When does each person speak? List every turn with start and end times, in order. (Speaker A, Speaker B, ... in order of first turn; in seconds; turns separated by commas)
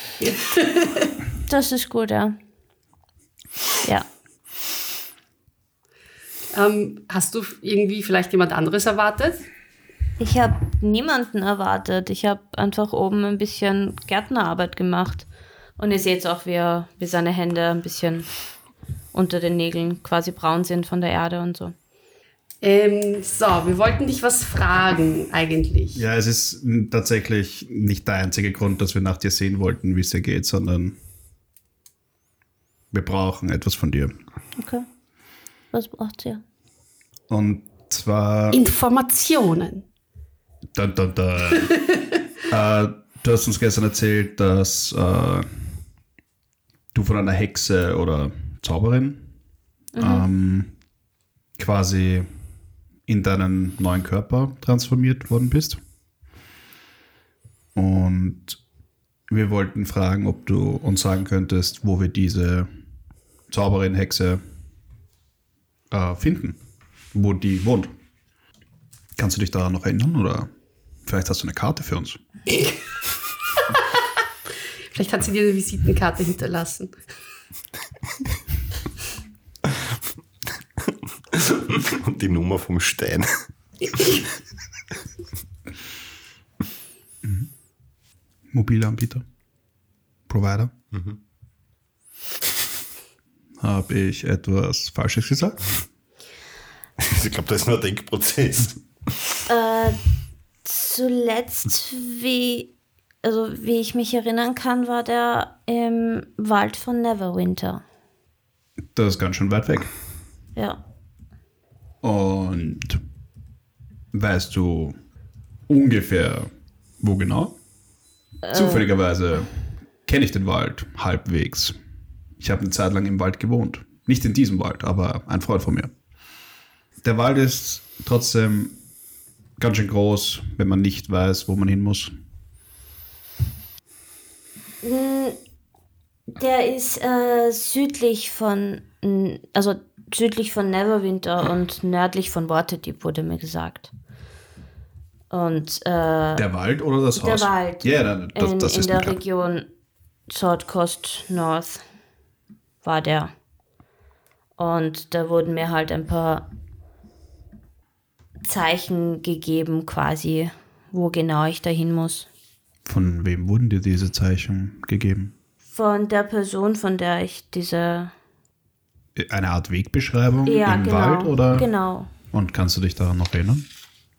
Speaker A: 0.2-1.1, Speaker B: 1.5-2.4, Speaker A: 6.5-9.4, Speaker B: 10.2-15.3, Speaker B: 15.8-18.3, Speaker B: 19.1-21.7, Speaker A: 22.6-26.0, Speaker C: 25.9-31.0, Speaker C: 32.9-34.1, Speaker B: 34.6-34.9, Speaker B: 35.7-36.4, Speaker C: 37.3-38.6, Speaker A: 38.5-39.8, Speaker C: 40.7-41.8, Speaker A: 41.5-42.0, Speaker C: 42.5-45.6, Speaker C: 46.9-49.3, Speaker B: 49.9-50.2, Speaker C: 50.0-50.7, Speaker C: 51.6-52.3, Speaker C: 53.1-55.8, Speaker C: 57.7-58.6, Speaker C: 59.3-62.7, Speaker C: 63.5-64.4, Speaker C: 65.9-66.6, Speaker C: 67.1-67.9, Speaker C: 69.2-70.5, Speaker C: 71.0-72.2, Speaker A: 74.9-76.9, Speaker D: 81.3-83.3, Speaker C: 87.2-87.5, Speaker C: 88.5-89.2, Speaker C: 90.3-90.7, Speaker D: 90.9-91.2, Speaker C: 93.6-95.6, Speaker D: 97.0-98.8, Speaker B: 99.5-100.0, Speaker B: 100.6-102.7, Speaker B: 103.2-107.8, Speaker C: 108.9-109.9, Speaker C: 112.0-113.0, Speaker C: 114.1-115.0, Speaker C: 115.7-116.5, Speaker C: 117.0-117.5, Speaker B: 118.4-118.9, Speaker C: 118.5-119.5, Speaker C: 120.0-121.7, Speaker C: 122.4-125.9, Speaker C: 127.0-128.8, Speaker C: 129.6-132.1, Speaker B: 134.8-135.4, Speaker B: 136.3-143.9, Speaker B: 145.3-146.4, Speaker C: 146.4-149.2, Speaker B: 147.2-149.7, Speaker B: 150.3-151.8, Speaker B: 152.8-153.3, Speaker B: 154.6-156.4, Speaker B: 158.4-162.3, Speaker C: 162.8-165.3, Speaker B: 165.7-168.1, Speaker C: 169.2-171.7, Speaker B: 170.4-172.1, Speaker C: 172.3-173.7